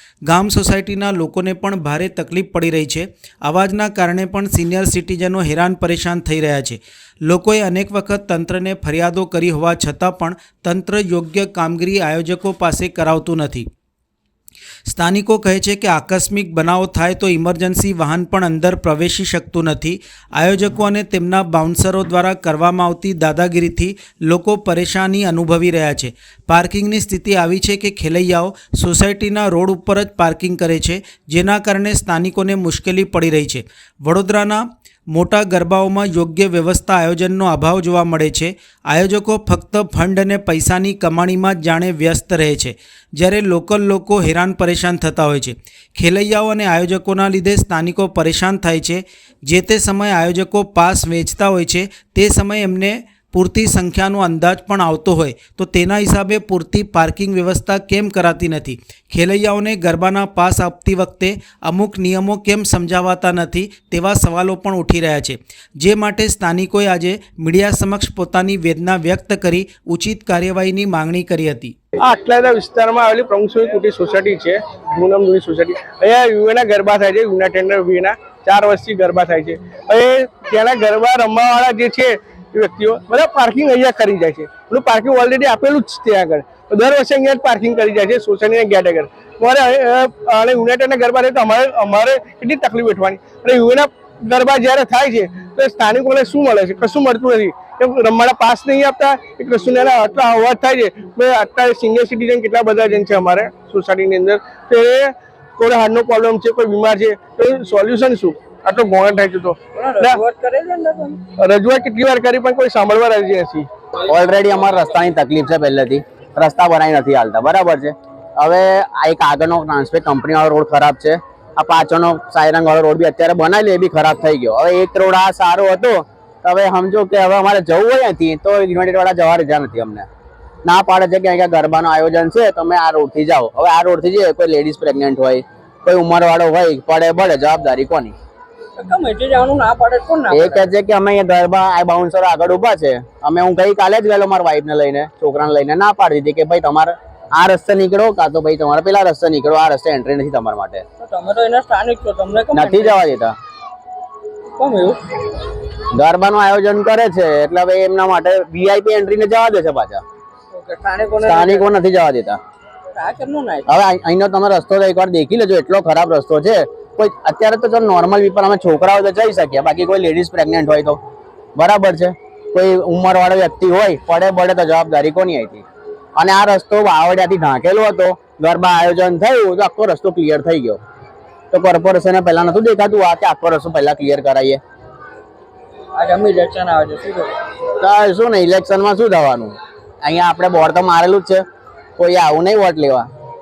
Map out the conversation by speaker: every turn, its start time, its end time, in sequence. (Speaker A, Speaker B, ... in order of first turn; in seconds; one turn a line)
Speaker A: 0.3-13.7
Speaker A: 14.9-71.8
Speaker B: 72.0-110.2
Speaker C: 109.7-111.2
Speaker B: 111.4-113.7
Speaker D: 114.1-130.1
Speaker D: 130.7-138.1
Speaker C: 138.8-140.7
Speaker D: 140.3-150.8
Speaker C: 151.0-153.1
Speaker D: 152.5-153.3
Speaker C: 154.6-155.0
Speaker D: 155.9-160.0
Speaker C: 160.5-161.7
Speaker D: 161.2-162.4
Speaker C: 162.9-163.7
Speaker D: 163.7-171.0
Speaker D: 171.6-175.6
Speaker D: 176.2-180.8
Speaker D: 181.5-184.6
Speaker C: 185.9-187.3
Speaker D: 187.8-191.4
Speaker D: 192.0-193.1